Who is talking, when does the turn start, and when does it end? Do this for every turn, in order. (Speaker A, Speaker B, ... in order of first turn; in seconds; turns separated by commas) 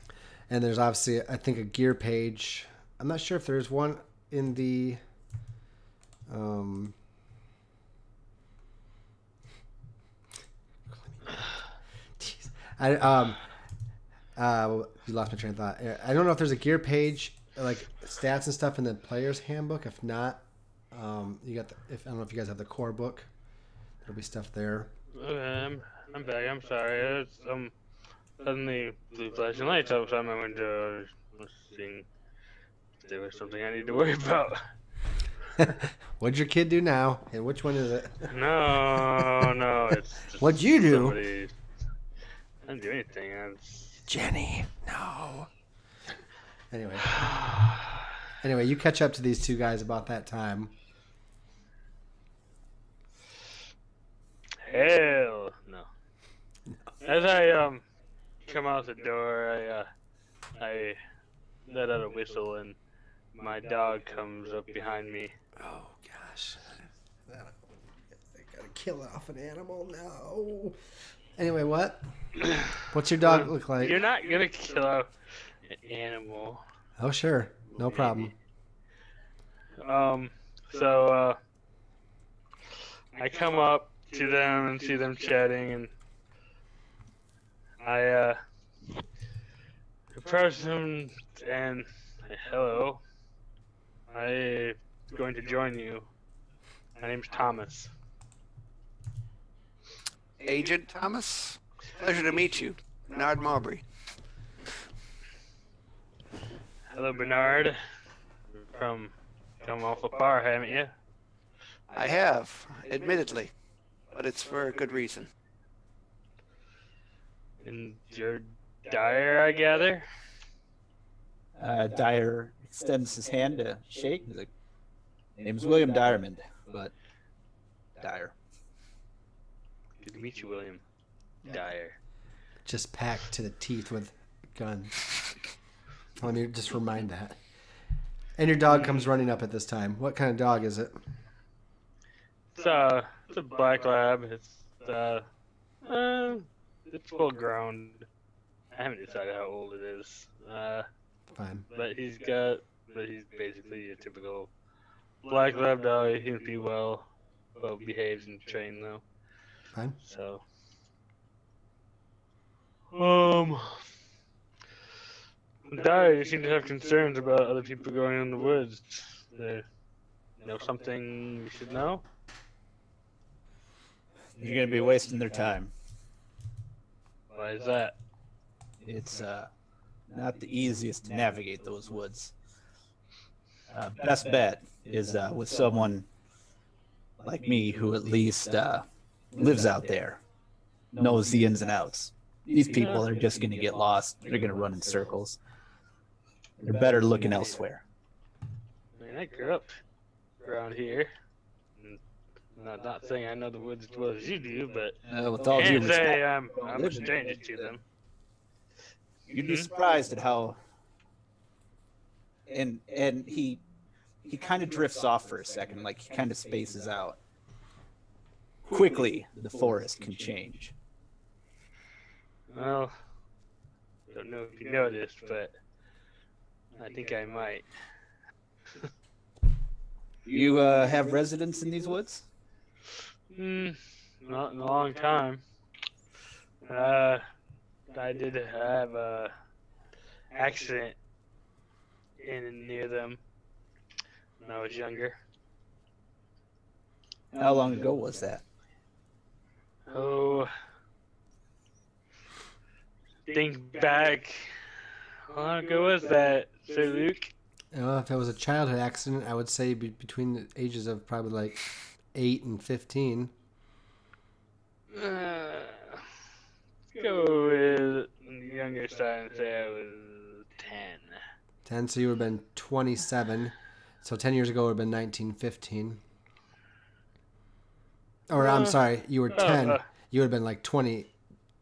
Speaker A: 0.5-5.0, Speaker A: 6.3-7.0, Speaker A: 10.9-11.3, Speaker A: 12.2-13.4, Speaker A: 14.4-23.3, Speaker A: 24.0-24.9, Speaker B: 25.1-27.7, Speaker B: 28.4-32.1, Speaker B: 33.0-34.6, Speaker A: 35.6-38.3, Speaker B: 38.3-41.5, Speaker A: 39.1-39.5, Speaker A: 40.4-41.2, Speaker B: 42.7-44.0, Speaker A: 44.1-45.5, Speaker A: 46.7-47.2, Speaker B: 47.2-47.7, Speaker A: 48.4-50.7, Speaker B: 54.6-55.9, Speaker B: 57.0-57.8, Speaker B: 58.5-59.9, Speaker B: 60.6-61.0, Speaker B: 61.7-62.8, Speaker B: 63.4-65.3, Speaker A: 65.6-67.6, Speaker A: 68.3-70.8, Speaker A: 71.4-72.1, Speaker A: 72.8-74.0, Speaker B: 73.3-75.1, Speaker B: 75.6-76.6, Speaker A: 77.0-78.3, Speaker B: 77.7-78.3, Speaker B: 79.8-81.4, Speaker B: 83.2-85.9, Speaker B: 87.8-88.4, Speaker B: 90.1-93.0, Speaker B: 94.1-96.1, Speaker B: 97.0-97.9, Speaker C: 100.4-103.8, Speaker B: 106.9-107.8, Speaker B: 108.6-110.9, Speaker C: 111.9-113.5, Speaker C: 114.1-115.3, Speaker B: 117.6-120.0, Speaker D: 121.6-124.5, Speaker D: 125.4-126.9, Speaker D: 128.0-128.3, Speaker B: 130.0-130.8, Speaker B: 131.5-131.9, Speaker A: 132.7-135.0, Speaker A: 136.2-137.4, Speaker A: 138.4-141.0, Speaker B: 138.7-139.1, Speaker B: 142.5-145.2, Speaker B: 145.9-148.1, Speaker B: 148.7-150.9, Speaker A: 151.3-151.7, Speaker B: 151.7-154.5, Speaker B: 155.2-159.0, Speaker B: 160.0-160.4, Speaker B: 162.9-163.9, Speaker B: 165.7-169.7, Speaker B: 170.4-172.0, Speaker D: 174.4-175.7, Speaker B: 177.3-178.0, Speaker D: 178.8-179.5, Speaker D: 180.1-182.3, Speaker D: 183.7-186.1, Speaker D: 187.2-190.2, Speaker D: 190.9-195.4, Speaker D: 196.6-197.8, Speaker B: 199.0-199.8, Speaker B: 200.4-201.1, Speaker B: 202.6-205.0, Speaker D: 205.1-207.7, Speaker B: 205.6-207.8, Speaker D: 209.3-210.6, Speaker B: 209.4-209.7, Speaker D: 212.5-213.6, Speaker D: 214.2-217.2, Speaker D: 218.7-220.7, Speaker B: 222.5-222.9, Speaker B: 224.1-225.5, Speaker B: 226.8-227.7, Speaker D: 230.3-232.2, Speaker B: 233.3-235.4, Speaker B: 236.7-237.2, Speaker B: 237.9-239.3, Speaker B: 240.3-240.9, Speaker B: 242.2-243.2, Speaker B: 244.4-245.2, Speaker D: 247.3-248.4, Speaker B: 249.9-250.5, Speaker B: 253.3-254.5, Speaker B: 255.3-257.3, Speaker A: 257.7-261.6, Speaker A: 262.1-263.3, Speaker B: 264.9-266.0, Speaker B: 266.9-271.2, Speaker A: 271.6-276.0, Speaker A: 278.3-281.1, Speaker B: 278.4-278.8, Speaker B: 279.4-279.8